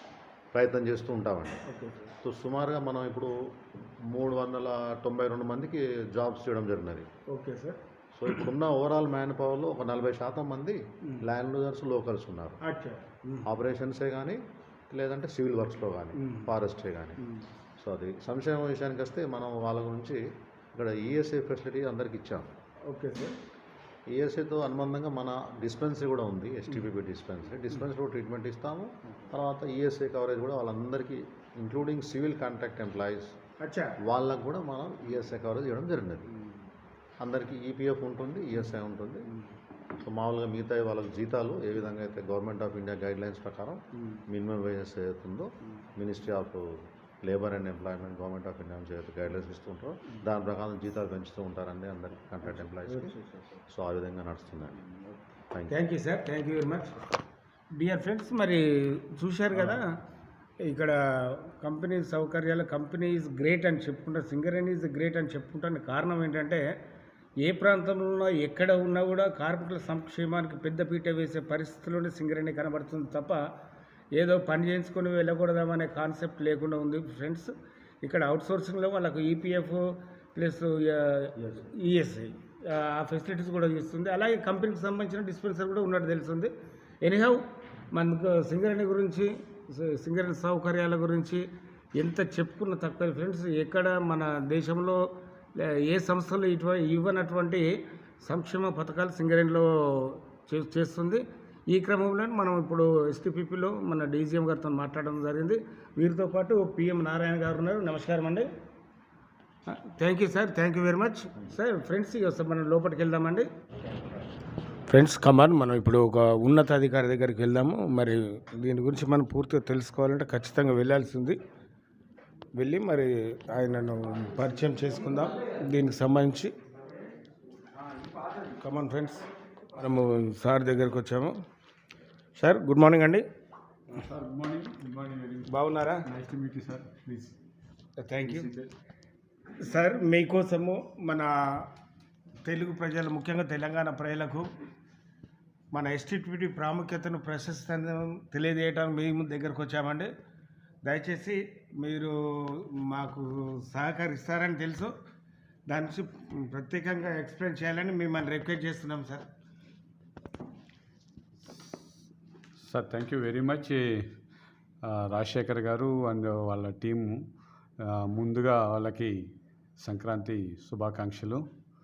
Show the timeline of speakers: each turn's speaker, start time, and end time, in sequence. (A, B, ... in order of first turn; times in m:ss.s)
0:00.5-0:01.6 A
0:01.7-0:02.0 B
0:02.2-0:03.3 A
0:04.0-0:07.1 A
0:07.3-0:07.8 B
0:08.1-0:12.6 A
0:12.6-0:13.5 B
0:13.4-0:17.2 A
0:16.2-0:16.5 B
0:17.8-0:20.2 A
0:20.7-0:22.5 A
0:22.9-0:23.4 B
0:24.1-0:33.3 A
0:33.6-0:34.0 B
0:34.0-0:36.3 A
0:37.2-0:39.3 A
0:40.0-0:46.7 A
0:44.0-0:44.2 B
0:47.2-0:53.1 A
0:52.6-0:53.2 B
0:53.7-0:54.8 A
0:55.5-0:55.8 A
0:55.7-0:57.0 B
0:57.7-0:59.9 B
1:00.6-1:06.7 B
1:07.4-1:13.4 B
1:14.1-1:17.5 B
1:18.0-1:35.0 B
1:35.6-1:48.5 B
1:49.7-1:53.5 B
1:54.9-2:01.4 B
2:02.6-2:06.5 B
2:08.5-2:11.4 B
2:12.4-2:13.2 B
2:13.9-2:15.5 C
2:15.5-2:16.0 B
2:16.0-2:17.3 C
2:18.0-2:18.5 B
2:18.3-2:18.7 C
2:19.6-2:21.7 B
2:22.4-2:24.5 B
2:25.7-2:30.1 B
2:30.8-2:34.9 B
2:35.7-2:39.3 B
2:42.6-2:44.1 C
2:44.8-2:47.2 C
2:48.1-2:49.1 C
2:49.8-2:51.4 C